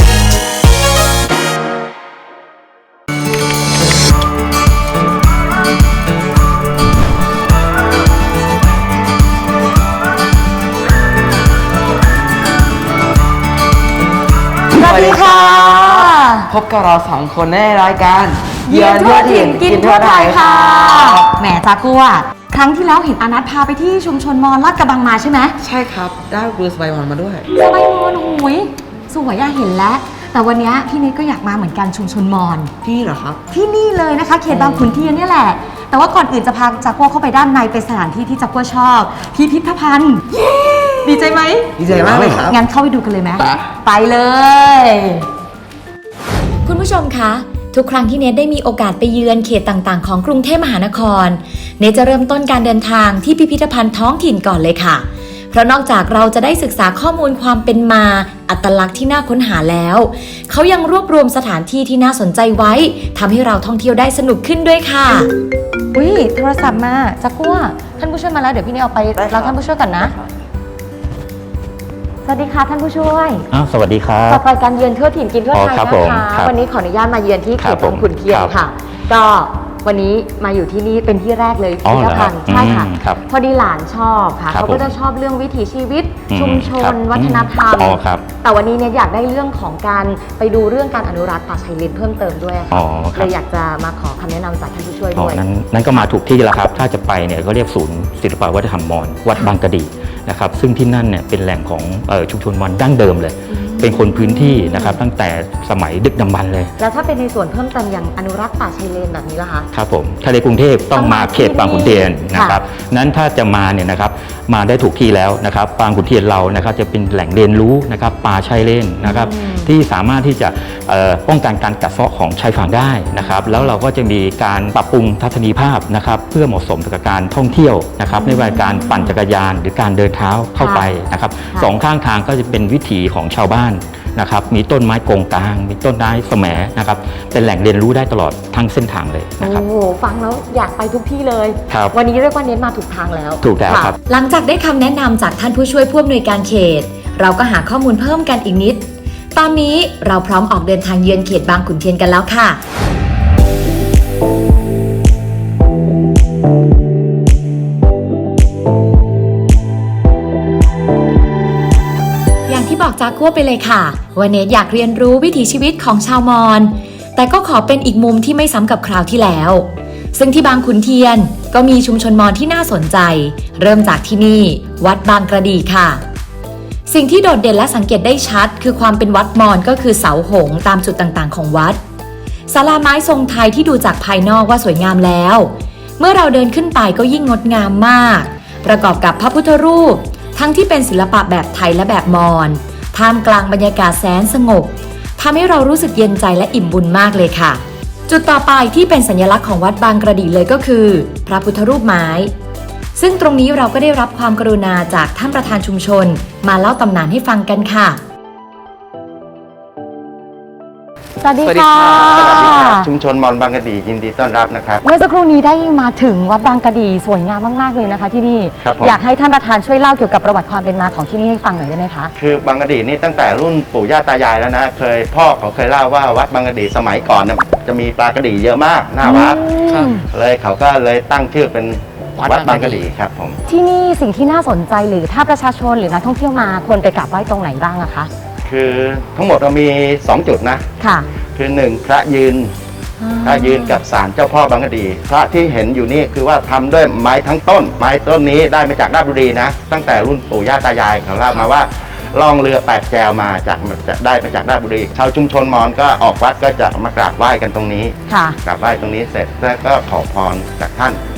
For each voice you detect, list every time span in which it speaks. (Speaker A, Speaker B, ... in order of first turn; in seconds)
Speaker A: 14.8-16.5, 18.7-25.6, 27.6-32.7, 33.5-45.3, 65.9-70.1, 72.2-73.5, 74.3-96.0, 103.5-105.0, 106.8-109.7, 110.9-112.6, 119.0-119.7, 128.1-129.2, 130.6-130.9, 139.4-143.9, 211.2-212.9, 214.8-222.1, 229.0-230.0, 233.5-238.1, 240.8-241.1, 243.0-243.8, 258.1-258.4
Speaker B: 14.8-21.2, 25.6-27.5, 32.8-33.4, 34.5-35.0, 41.8-42.6, 43.4-43.7, 211.4-212.7, 229.7-230.0, 232.2-232.8
Speaker C: 46.6-65.3, 144.1-152.6, 162.5-176.0, 176.9-181.8, 182.5-202.3, 202.9-208.0
Speaker D: 73.5-74.5, 75.5-76.5, 77.6-78.5, 81.8-83.2, 84.5-85.0, 86.3-88.3, 92.7-93.3, 95.2-106.7, 109.7-139.6, 141.7-141.9, 143.4-144.0
Speaker E: 212.0-214.8, 218.6-219.0, 222.2-229.5, 230.1-233.4, 238.5-240.7, 241.3-242.5, 243.2-261.0